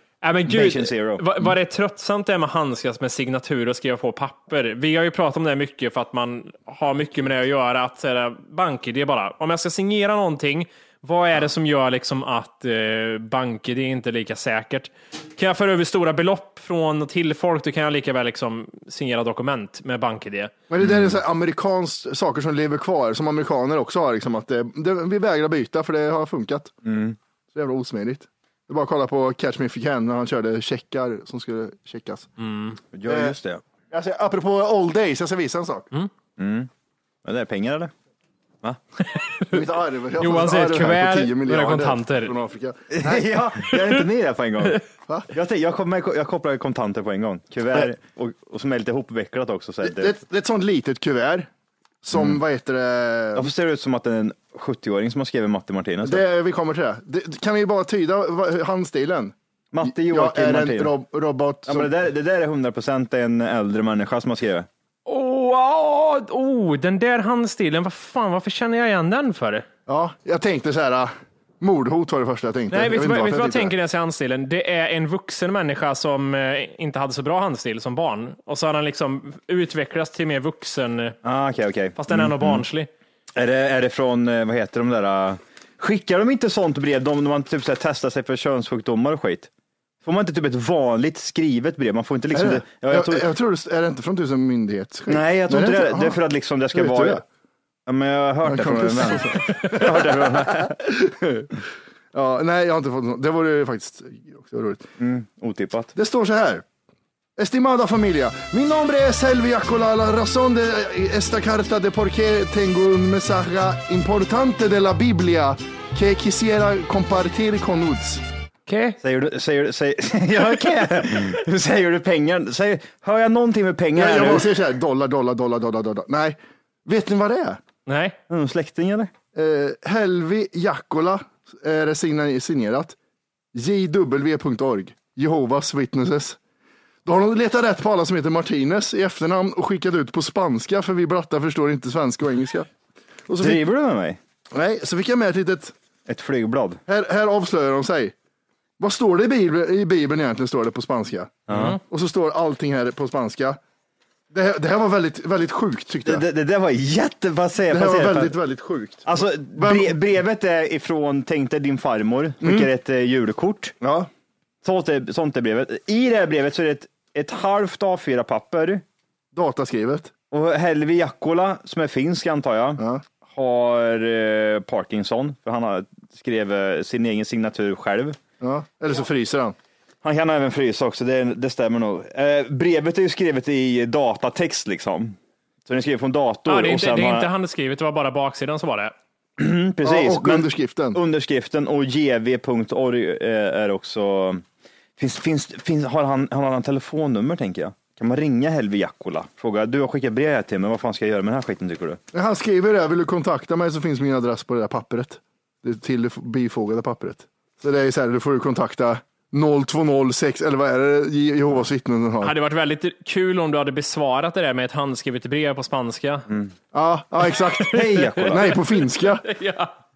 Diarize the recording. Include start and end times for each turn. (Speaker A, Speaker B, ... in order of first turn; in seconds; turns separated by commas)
Speaker A: 0.2-20.5, Speaker B: 0.5-1.4, Speaker C: 20.7-26.7, Speaker B: 20.8-21.1, Speaker B: 26.8-27.1, Speaker C: 27.5-32.3, Speaker A: 32.4-32.8, Speaker B: 32.9-33.6, Speaker C: 33.1-33.4, Speaker C: 33.9-35.9, Speaker B: 36.4-36.7, Speaker B: 37.2-37.9, Speaker A: 39.1-39.5, Speaker C: 39.5-43.3, Speaker A: 40.2-42.3, Speaker B: 42.9-50.1, Speaker A: 43.7-44.0, Speaker C: 49.8-51.5, Speaker C: 52.0-53.5, Speaker B: 52.1-52.4, Speaker B: 53.4-56.2, Speaker C: 56.0-59.3, Speaker B: 59.7-60.9, Speaker C: 59.8-61.9, Speaker B: 61.7-64.7, Speaker A: 65.1-69.7, Speaker C: 69.9-73.7, Speaker A: 72.7-81.2, Speaker B: 81.2-82.6, Speaker A: 82.0-82.9, Speaker B: 83.3-89.5, Speaker B: 90.0-93.3, Speaker C: 92.3-96.2, Speaker B: 95.1-97.2, Speaker C: 96.7-97.2, Speaker B: 97.9-100.7, Speaker C: 98.4-101.5, Speaker C: 102.1-104.8, Speaker B: 105.0-105.9, Speaker C: 105.9-106.6, Speaker C: 107.4-118.2, Speaker A: 118.7-119.0, Speaker B: 119.0-124.5, Speaker C: 124.0-127.6, Speaker A: 127.9-128.2, Speaker B: 128.3-129.1, Speaker C: 129.3-132.9, Speaker C: 133.5-136.4, Speaker C: 137.0-142.7, Speaker C: 143.3-143.6, Speaker B: 143.4-144.2, Speaker C: 144.5-145.7, Speaker B: 146.1-146.8, Speaker C: 146.9-148.1, Speaker C: 148.8-153.6, Speaker B: 151.5-151.8, Speaker A: 151.5-151.8, Speaker C: 154.3-156.2, Speaker B: 156.0-158.3, Speaker C: 157.7-160.0, Speaker B: 159.0-163.8, Speaker C: 162.4-162.7, Speaker C: 163.8-164.1, Speaker B: 164.6-168.8, Speaker C: 169.3-170.1, Speaker B: 170.3-178.2, Speaker C: 172.8-173.0, Speaker C: 178.4-179.5, Speaker B: 180.0-187.3, Speaker A: 186.5-188.9, Speaker B: 189.4-194.4, Speaker C: 189.8-191.0, Speaker B: 195.0-202.0, Speaker C: 202.1-212.3, Speaker A: 212.2-216.3, Speaker C: 216.7-219.2, Speaker B: 217.7-218.6, Speaker A: 217.9-218.6, Speaker A: 219.2-219.7